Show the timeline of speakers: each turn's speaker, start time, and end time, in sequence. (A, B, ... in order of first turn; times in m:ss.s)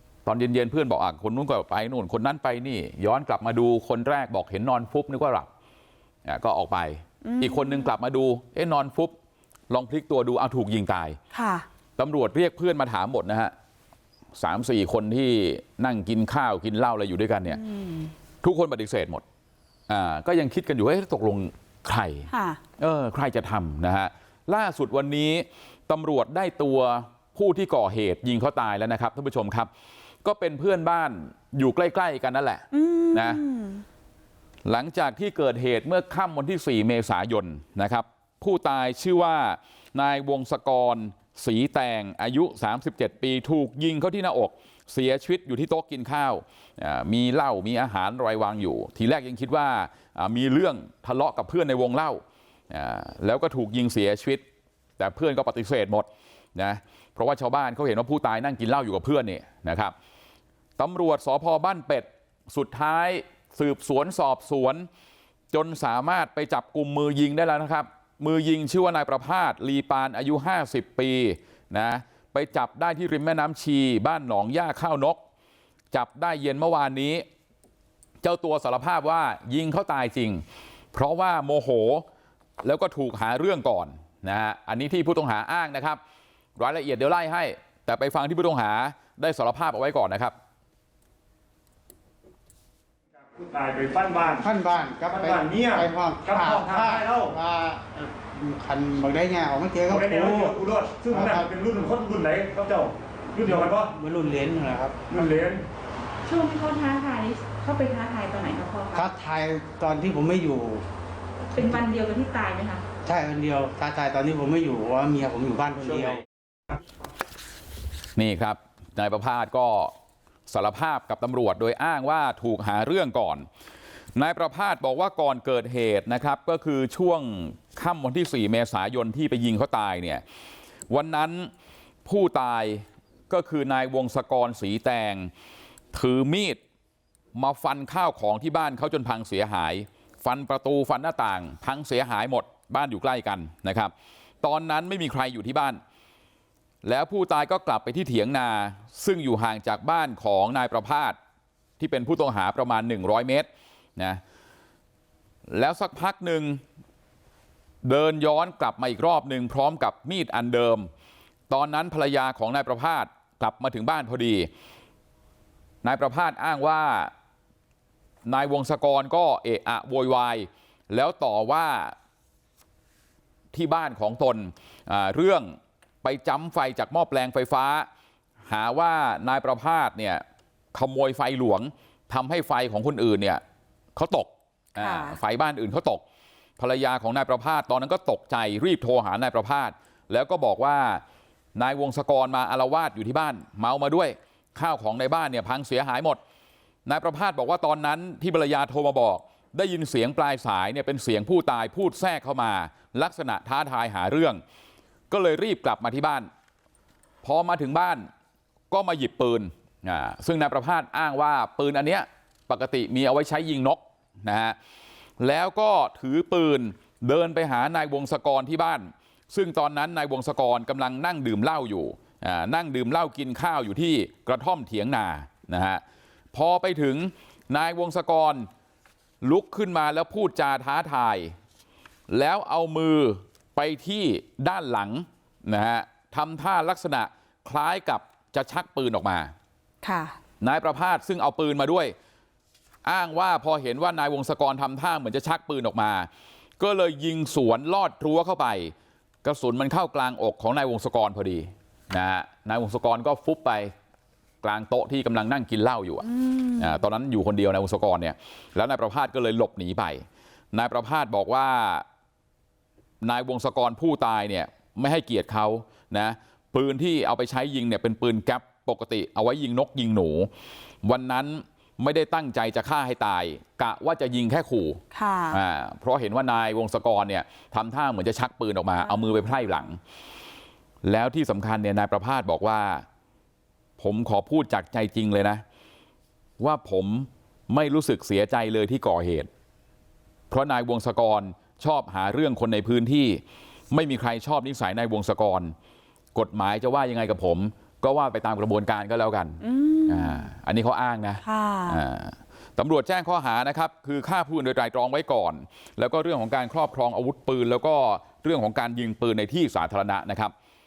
0:00.2-0:05.5 A
0:06.2-0:09.1 A
0:09.7-0:11.2 A
0:11.3-0:11.6 B
0:12.0-0:13.5 A
0:14.3-0:17.7 A
0:18.4-0:19.2 A
0:19.9-0:29.7 A
0:22.3-0:22.6 B
0:30.2-0:33.4 A
0:32.7-0:33.8 B
0:34.6-0:54.4 A
0:55.0-0:59.9 A
1:00.8-1:04.9 A
1:05.5-1:15.2 A
1:15.9-1:17.2 A
1:18.2-1:22.0 A
1:22.6-1:26.0 A
1:26.6-1:30.3 A
1:33.2-1:34.4 C
1:34.3-1:41.5 D
1:35.1-1:37.3 C
1:39.9-1:43.9 C
1:43.4-1:45.1 D
1:45.1-1:45.6 C
1:46.2-1:49.0 E
1:48.9-1:50.8 D
1:51.5-1:52.8 E
1:53.0-1:56.2 D
1:58.2-1:59.9 A
2:00.5-2:03.5 A
2:04.2-2:10.2 A
2:10.9-2:11.5 A
2:12.0-2:15.3 A
2:15.9-2:16.6 A
2:17.3-2:25.8 A
2:26.8-2:31.2 A
2:31.8-2:34.2 A
2:35.5-2:36.6 A
2:37.8-2:40.9 A
2:41.5-2:44.5 A
2:45.8-2:47.1 A
2:48.2-2:51.9 A
2:53.5-2:57.9 A
2:58.4-3:00.2 A
3:00.7-3:03.4 A
3:03.9-3:06.0 A
3:04.8-3:05.2 B
3:06.6-3:11.0 A
3:11.5-3:16.2 A
3:16.8-3:24.4 A
3:25.1-3:26.3 A
3:27.2-3:28.1 A
3:28.7-3:34.6 A
3:35.2-3:45.8 A
3:46.3-3:48.5 A
3:49.2-3:51.3 A
3:52.1-3:59.3 A
3:59.8-4:00.2 E
4:00.4-4:01.9 A
4:02.8-4:06.1 A
4:06.6-4:08.7 A
4:09.2-4:13.7 A
4:14.4-4:21.8 A
4:23.0-4:30.3 A
4:30.8-4:39.8 A
4:34.9-4:35.3 B
4:40.8-4:42.8 A
4:43.8-4:45.4 A
4:46.4-4:49.3 A
4:50.3-4:55.5 A
4:56.1-5:10.3 A
4:59.4-5:00.2 B
5:01.2-5:01.7 B